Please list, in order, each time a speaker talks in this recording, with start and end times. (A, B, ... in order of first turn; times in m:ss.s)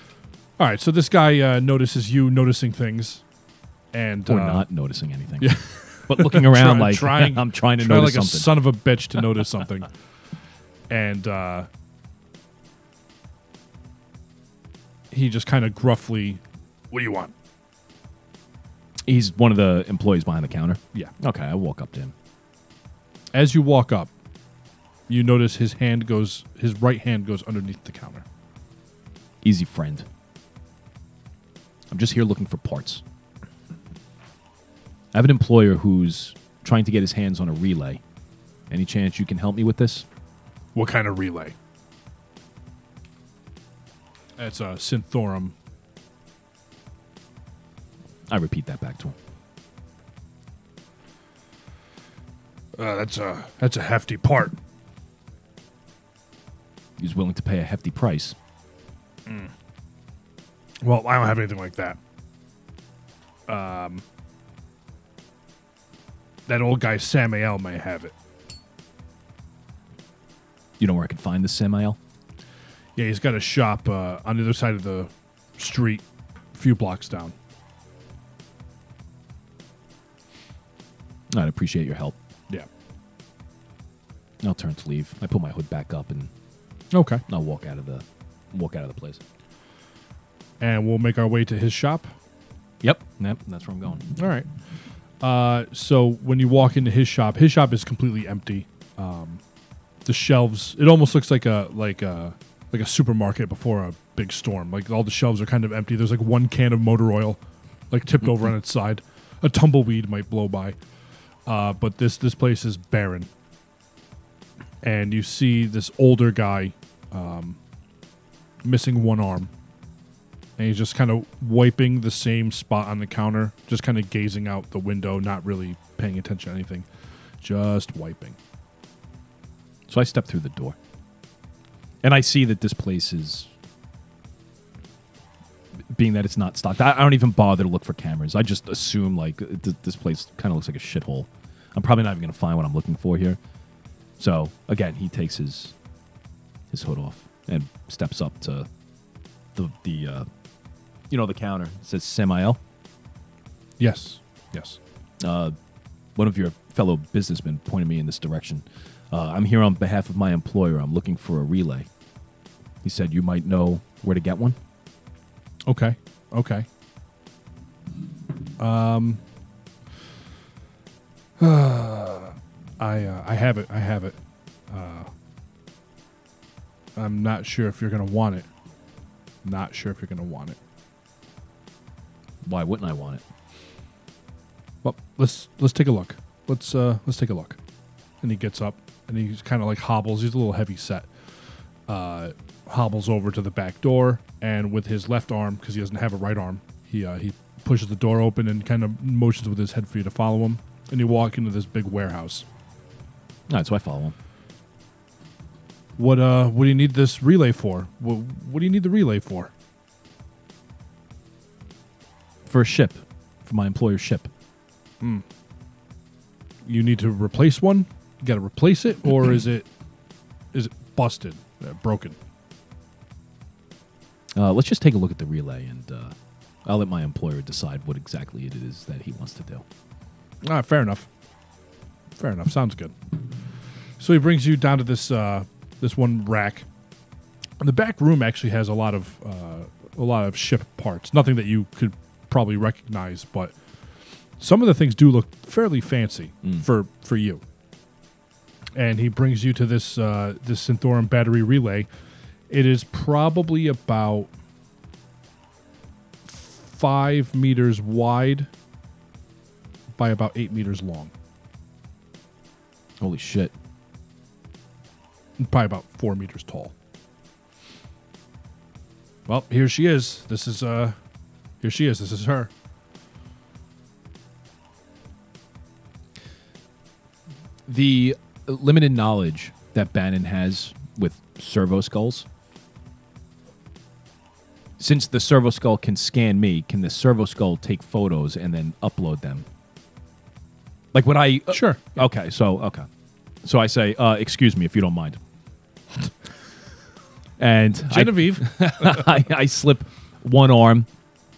0:00.6-0:03.2 A
0:03.9-0:04.7 A
0:04.3-0:08.6 B
0:05.4-0:09.9 A
0:10.9-0:11.7 A
0:15.1-0:17.3 A
0:19.0-0:22.1 B
0:23.3-0:24.1 A
0:25.1-0:28.2 A
0:29.4-0:30.1 B
0:31.9-0:33.0 B
0:35.1-0:38.0 B
0:38.7-0:40.1 B
0:40.8-0:41.6 A
0:44.4-0:45.6 A
0:48.3-0:49.2 B
0:52.8-0:54.6 A
0:57.0-0:58.4 B
0:59.3-0:59.5 A
1:00.8-1:02.0 A
1:03.5-1:04.0 A
1:06.5-1:08.1 A
1:10.8-1:12.0 B
1:13.0-1:17.4 A
1:21.3-1:22.2 B
1:24.4-1:26.3 B
1:26.9-1:27.2 A
1:27.3-1:29.2 B
1:30.6-1:32.1 A
1:32.8-1:34.1 B
1:34.2-1:34.5 A
1:35.2-1:39.4 A
1:40.0-1:50.8 A
1:51.5-1:53.3 A
1:54.8-1:57.6 A
1:58.6-1:59.5 A
2:00.6-2:06.9 A
2:07.4-2:08.4 A
2:09.9-2:10.8 B
2:12.0-2:13.5 B
2:15.9-2:23.4 B
2:24.2-2:25.7 B
2:26.7-2:28.7 B
2:29.6-2:30.3 B
2:31.1-2:32.6 B
2:33.8-2:34.8 A
2:35.2-2:35.6 B
2:36.2-2:41.9 B
2:42.8-2:44.6 B
2:45.7-2:46.7 A
2:48.6-2:49.2 A
2:51.4-2:54.2 A
2:54.7-2:55.1 A
2:57.0-2:58.5 A
2:59.4-3:00.6 A
3:02.4-3:03.2 B
3:04.8-3:07.6 A
3:08.2-3:11.1 A
3:11.9-3:22.5 A
3:23.5-3:24.2 B
3:26.0-3:29.5 A
3:32.5-3:34.3 B
3:36.6-3:39.7 A
3:40.5-3:42.2 A
3:44.4-3:49.6 B
3:50.4-3:51.1 A
3:52.2-3:53.0 A
3:54.0-3:56.7 A
3:57.6-4:03.6 A
4:04.4-4:07.4 A
4:08.7-4:11.9 A
4:12.5-4:14.3 A
4:16.3-4:18.5 A
4:20.0-4:21.1 A
4:23.0-4:23.5 B
4:25.4-4:26.7 A
4:29.3-4:31.0 A
4:31.6-4:32.5 A
4:37.7-4:42.3 B
4:44.8-4:49.5 B
4:50.9-4:52.9 B
4:51.5-4:52.0 A
4:53.4-4:55.2 B
4:57.4-5:00.9 B
4:57.9-4:59.2 A